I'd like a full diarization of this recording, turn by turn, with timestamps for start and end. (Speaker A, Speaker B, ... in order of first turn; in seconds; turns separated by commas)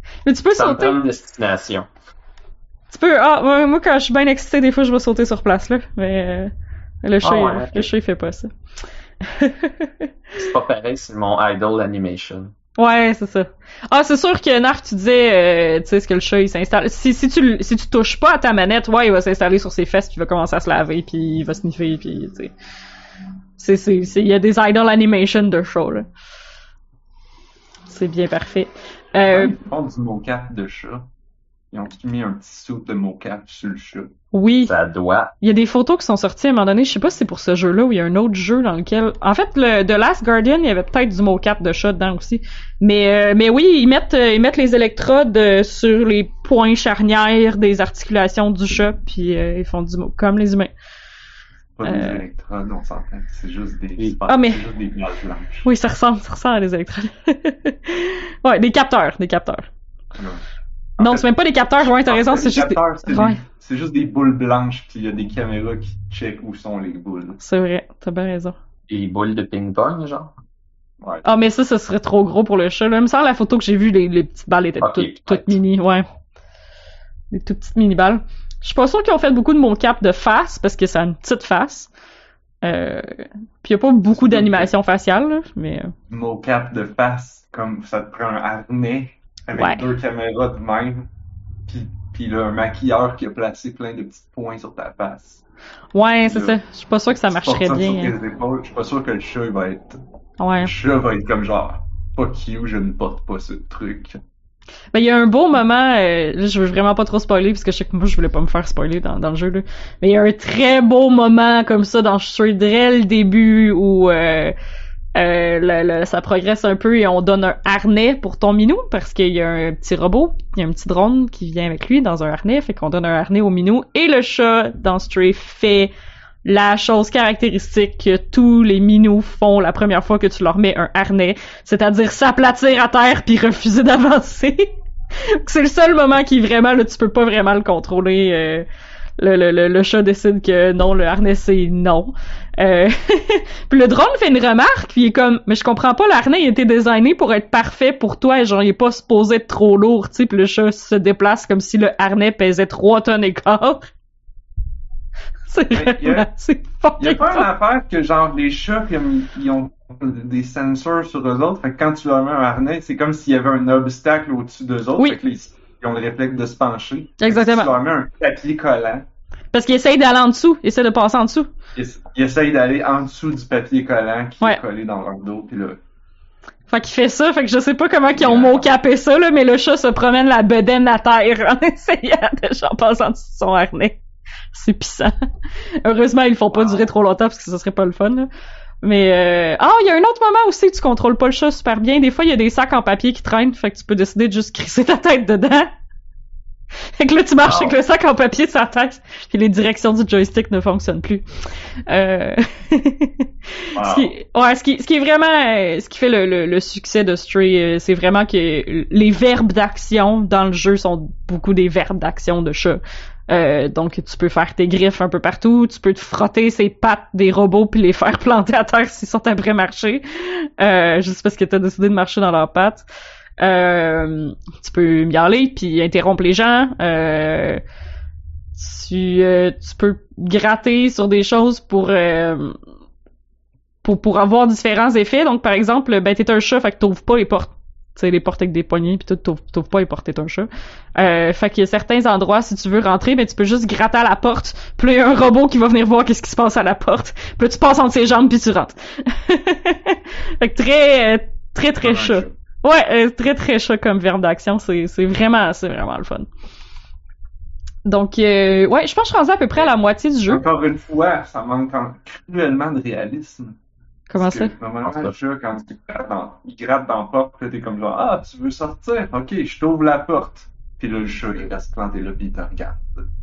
Speaker A: 0.2-1.0, Speaker B: 0.5-1.9, Speaker A: 2.9-6.5, Speaker A: 7.0-8.5, Speaker B: 7.2-7.9, Speaker A: 9.2-10.1, Speaker B: 10.4-12.5, Speaker A: 12.8-22.5, Speaker A: 23.6-26.1, Speaker A: 27.9-29.5, Speaker C: 29.3-31.1, Speaker C: 31.7-34.1, Speaker A: 34.3-34.7, Speaker B: 34.6-35.3, Speaker A: 35.4-50.7, Speaker C: 51.8-55.7, Speaker A: 51.8-52.2, Speaker A: 54.3-54.6, Speaker A: 55.6-59.7, Speaker C: 60.1-60.4, Speaker C: 61.0-67.4, Speaker A: 61.0-63.4, Speaker A: 67.4-68.5, Speaker B: 68.9-70.3, Speaker A: 71.2-76.0, Speaker B: 74.8-75.6, Speaker A: 77.3-81.9, Speaker A: 82.6-85.9, Speaker C: 84.1-84.7, Speaker C: 86.1-91.1, Speaker A: 89.6-89.9, Speaker C: 91.7-95.4, Speaker A: 95.9-98.1, Speaker C: 96.2-96.6, Speaker C: 97.1-100.0, Speaker A: 100.4-100.7, Speaker C: 100.6-104.2, Speaker A: 104.9-114.5, Speaker A: 115.1-125.9, Speaker A: 126.4-138.7, Speaker A: 139.2-153.9, Speaker A: 155.5-157.5, Speaker C: 155.7-156.3, Speaker C: 157.0-169.1, Speaker A: 167.2-167.7, Speaker A: 169.5-171.5, Speaker C: 171.7-175.8, Speaker A: 176.7-184.0, Speaker C: 178.1-178.7, Speaker A: 184.5-185.1, Speaker A: 185.8-188.3, Speaker C: 186.5-186.9, Speaker A: 188.8-195.7, Speaker A: 196.9-201.2, Speaker A: 201.9-203.3, Speaker C: 203.7-204.1, Speaker A: 203.8-222.8, Speaker A: 223.4-227.6, Speaker A: 228.5-232.6, Speaker A: 233.8-256.3, Speaker C: 251.8-252.3, Speaker A: 257.8-260.4, Speaker C: 260.3-263.6, Speaker A: 264.1-264.5, Speaker C: 264.2-273.1, Speaker B: 264.8-265.1